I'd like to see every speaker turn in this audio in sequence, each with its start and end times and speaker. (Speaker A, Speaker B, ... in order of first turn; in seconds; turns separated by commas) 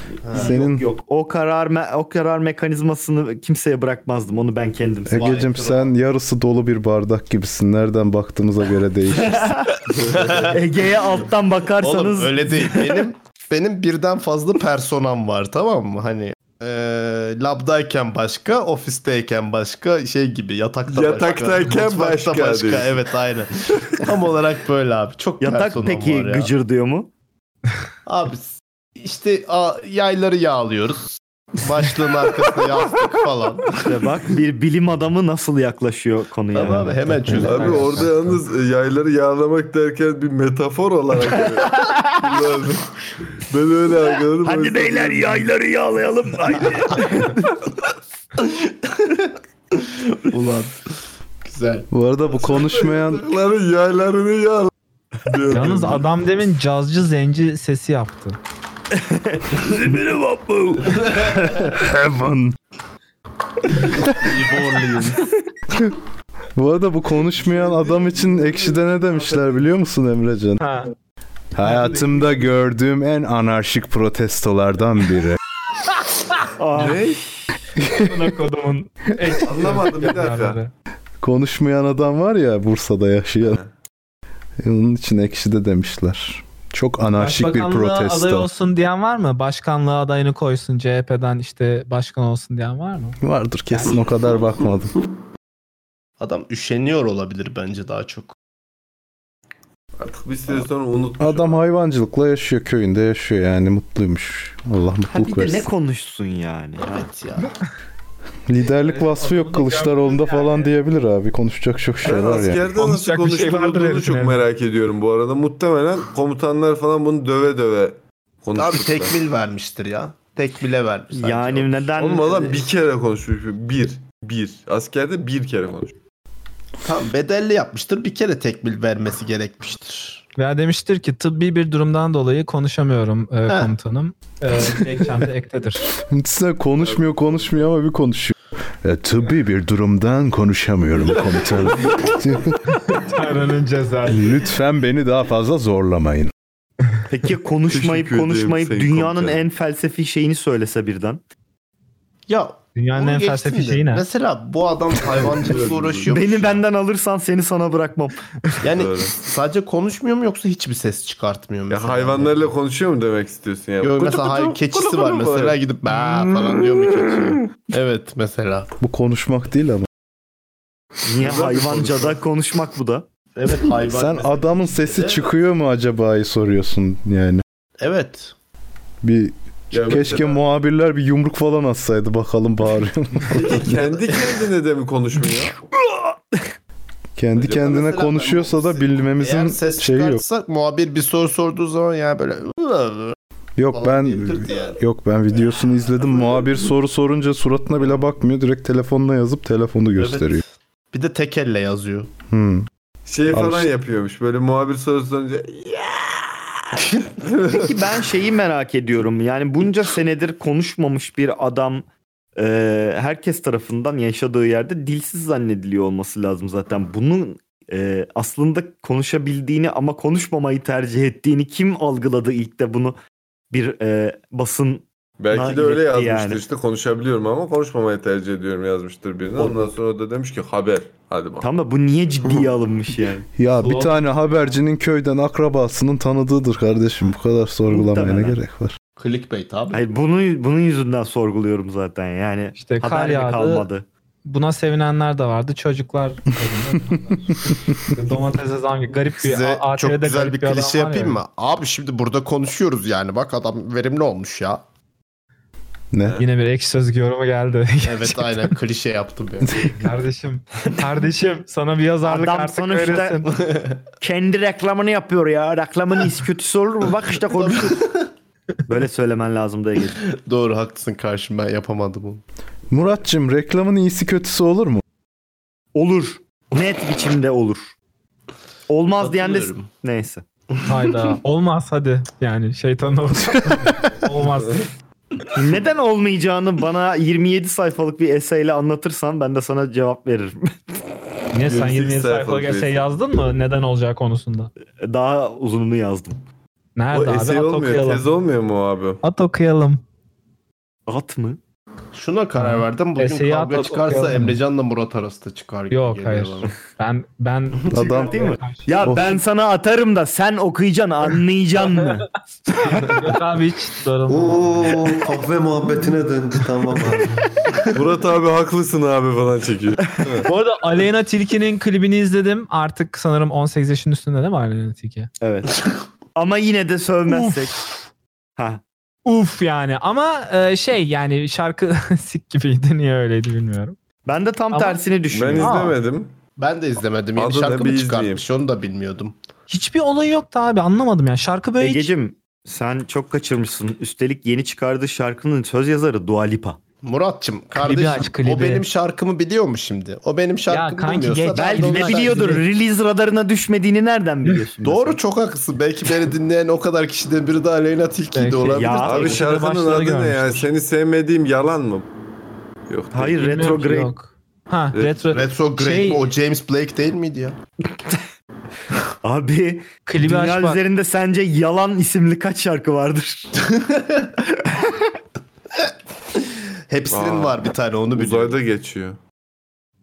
Speaker A: 0.2-0.6, Speaker B: 0.3-5.4, Speaker C: 0.3-0.8, Speaker C: 5.1-9.5, Speaker A: 5.1-5.9, Speaker B: 9.2-9.7, Speaker A: 10.0-10.6, Speaker B: 10.4-13.0, Speaker A: 11.8-26.5, Speaker D: 20.9-23.0, Speaker B: 25.4-27.1, Speaker A: 28.1-33.8, Speaker B: 33.8-37.9, Speaker A: 36.5-38.1, Speaker D: 37.4-42.8, Speaker B: 41.7-42.1, Speaker D: 43.5-45.5, Speaker B: 44.4-47.4, Speaker A: 48.4-50.8, Speaker A: 51.4-51.9, Speaker C: 51.9-53.2, Speaker D: 52.4-54.7, Speaker D: 55.2-56.0, Speaker E: 55.5-58.4, Speaker B: 59.0-61.3, Speaker C: 61.5-62.5, Speaker A: 63.8-65.2, Speaker C: 66.5-70.6, Speaker D: 67.4-69.4, Speaker E: 70.6-70.9, Speaker C: 71.5-75.4, Speaker E: 71.7-72.0, Speaker B: 76.6-77.5, Speaker D: 76.7-77.2, Speaker C: 77.8-78.1, Speaker E: 77.9-80.7, Speaker D: 79.4-80.6, Speaker C: 81.2-83.6, Speaker C: 84.6-88.5, Speaker E: 87.2-93.2, Speaker C: 93.2-95.0, Speaker A: 96.2-98.3, Speaker D: 100.0-101.6, Speaker C: 101.2-105.7, Speaker B: 105.1-107.0, Speaker A: 106.8-107.5, Speaker C: 108.5-112.7, Speaker E: 108.8-110.7, Speaker D: 112.0-119.1, Speaker E: 112.8-114.4, Speaker A: 118.5-121.8, Speaker B: 121.1-122.6, Speaker D: 122.0-125.9, Speaker A: 126.8-130.2, Speaker E: 130.4-135.9, Speaker C: 136.0-142.6, Speaker D: 136.8-137.5, Speaker E: 142.9-144.3, Speaker C: 144.1-146.3, Speaker B: 147.1-151.2, Speaker D: 147.7-149.4, Speaker A: 152.3-156.6, Speaker E: 152.8-154.0, Speaker D: 155.1-156.1, Speaker B: 156.1-158.3, Speaker A: 158.6-162.5, Speaker D: 158.7-159.1, Speaker D: 161.7-165.6, Speaker A: 163.8-168.7, Speaker D: 166.1-166.5, Speaker C: 168.8-169.9, Speaker B: 171.1-173.1, Speaker D: 171.2-172.2, Speaker A: 173.3-175.3, Speaker C: 173.9-177.4, Speaker A: 177.8-178.3, Speaker C: 179.0-183.8, Speaker D: 179.7-180.4, Speaker D: 183.3-185.5, Speaker A: 183.5-184.2, Speaker B: 185.7-186.4, Speaker C: 187.2-190.2, Speaker A: 187.4-193.2, Speaker C: 193.6-200.4, Speaker A: 193.7-194.8, Speaker A: 200.0-202.1, Speaker C: 202.3-202.7, Speaker D: 203.1-206.3, Speaker C: 203.3-203.7, Speaker D: 207.2-207.7, Speaker B: 207.5-223.0, Speaker B: 223.5-226.4, Speaker D: 225.2-231.5, Speaker B: 231.4-233.3, Speaker C: 233.3-238.8, Speaker E: 233.6-234.5, Speaker B: 237.7-238.4, Speaker A: 239.0-239.8, Speaker B: 239.7-243.8, Speaker E: 242.6-243.7, Speaker E: 244.2-247.3, Speaker C: 247.5-247.8, Speaker E: 247.9-251.2, Speaker A: 249.2-254.6, Speaker C: 255.9-256.2, Speaker E: 256.2-258.5, Speaker A: 257.8-259.7, Speaker E: 259.7-263.3, Speaker B: 262.0-263.3, Speaker A: 263.3-263.8, Speaker B: 264.0-267.8, Speaker A: 267.4-268.1, Speaker B: 268.7-270.0, Speaker A: 270.0-272.2, Speaker C: 272.7-274.8, Speaker B: 275.7-277.7, Speaker B: 278.7-280.2, Speaker A: 279.0-279.7, Speaker E: 280.6-284.7, Speaker B: 285.3-290.5, Speaker E: 291.3-294.5, Speaker D: 291.4-292.9, Speaker B: 294.8-296.2, Speaker E: 296.8-298.0, Speaker D: 296.9-299.0, Speaker E: 299.0-299.8, Speaker B: 300.9-301.4, Speaker A: 301.9-306.5, Speaker E: 302.4-304.4, Speaker E: 305.7-308.9, Speaker C: 307.7-308.3, Speaker B: 308.0-312.1, Speaker C: 308.8-309.1, Speaker E: 312.6-315.0, Speaker F: 314.1-317.2, Speaker D: 317.7-320.3, Speaker E: 320.2-325.1, Speaker B: 325.2-325.6, Speaker B: 326.1-327.5, Speaker E: 327.1-327.6, Speaker E: 329.1-333.8, Speaker B: 334.1-335.7, Speaker E: 334.5-334.8, Speaker D: 335.1-336.1, Speaker E: 335.4-335.7, Speaker A: 336.4-339.1, Speaker D: 337.1-338.2, Speaker E: 339.5-341.9, Speaker B: 341.6-346.6, Speaker A: 346.8-352.4, Speaker E: 347.6-348.6, Speaker E: 350.5-352.4, Speaker B: 351.3-355.0, Speaker A: 354.6-359.2, Speaker E: 358.1-360.5, Speaker B: 358.5-359.2, Speaker D: 358.8-361.9, Speaker D: 362.7-363.1, Speaker B: 362.9-363.9, Speaker E: 363.1-366.1, Speaker D: 364.7-365.1, Speaker A: 365.1-367.4, Speaker B: 369.0-373.3, Speaker E: 369.9-370.6, Speaker A: 373.6-374.1, Speaker A: 376.7-378.4, Speaker D: 376.9-377.4, Speaker D: 377.9-379.0